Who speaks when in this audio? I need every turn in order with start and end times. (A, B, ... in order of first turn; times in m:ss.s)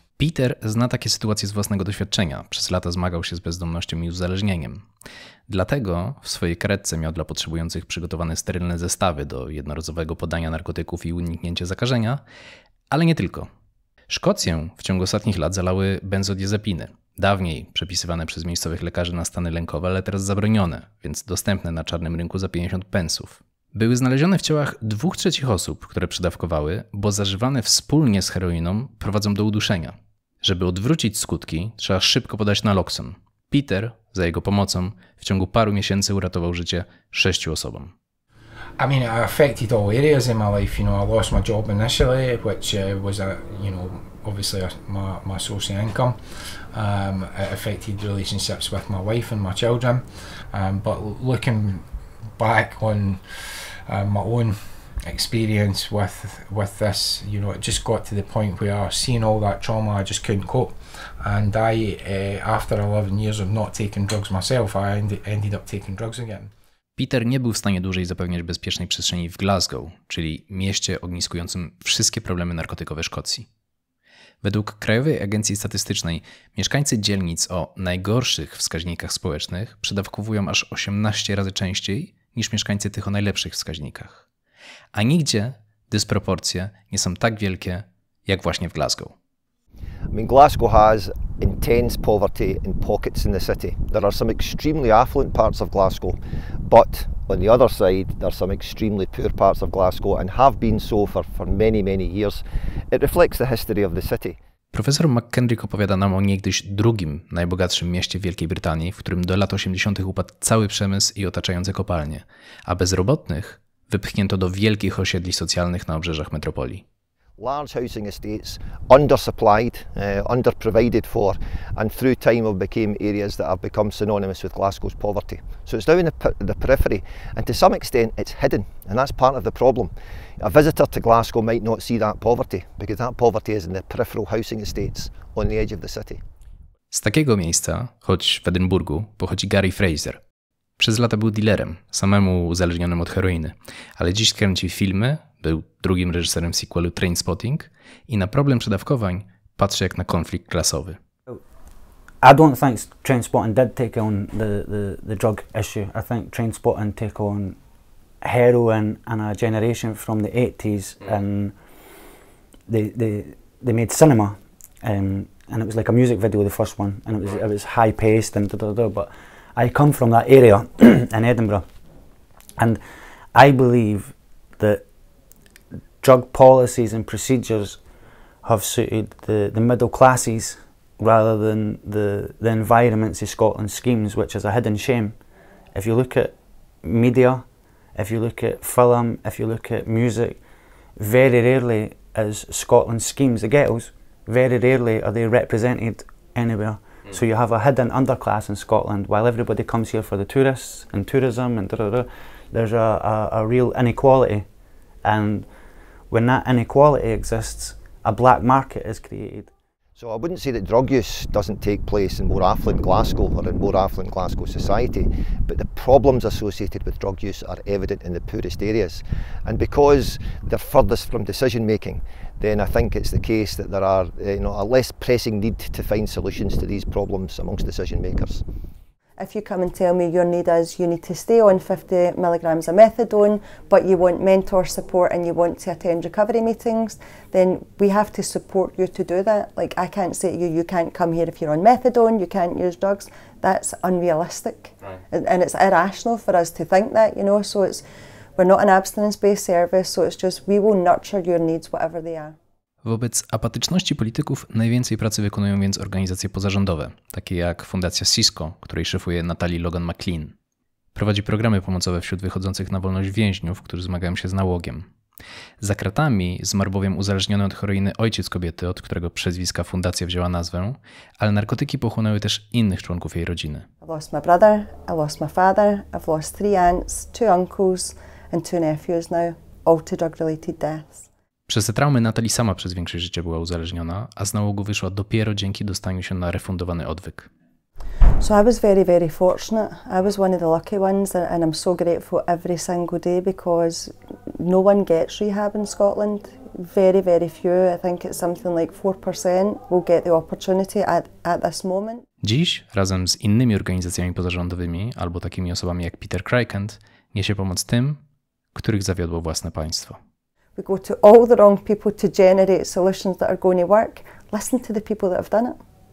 0:00.2-0:04.8 A
0:05.5-0:12.2 A
0:12.9-0:13.5 A
0:14.1-0:37.9 A
0:38.8-0:46.2 B
0:46.7-0:51.8 B
0:52.4-0:53.2 B
0:53.9-1:06.5 B
1:07.0-1:13.5 A
1:14.4-1:24.2 A
1:24.9-1:29.1 A
1:30.1-1:44.4 C
1:44.7-1:56.8 A
1:57.4-2:16.2 C
2:16.9-2:20.2 A
2:20.8-2:31.0 A
2:32.2-2:37.6 D
2:38.2-2:41.5 D
2:42.7-2:51.6 D
2:53.3-2:54.8 D
2:56.0-2:57.8 D
2:58.4-3:05.2 D
3:05.7-3:07.4 D
3:08.0-3:10.4 D
3:11.0-3:24.5 D
3:25.0-3:25.5 D
3:26.1-3:29.5 D
3:30.0-3:48.4 C
3:49.2-4:07.8 E
4:08.4-4:12.4 E
4:12.8-4:20.3 A
4:21.0-4:24.9 A
4:25.6-4:33.6 A
4:33.8-4:41.1 E
4:41.5-4:47.3 A
4:48.2-5:02.0 E
5:02.2-5:08.0 A
5:08.5-5:10.0 A
5:10.6-5:15.6 E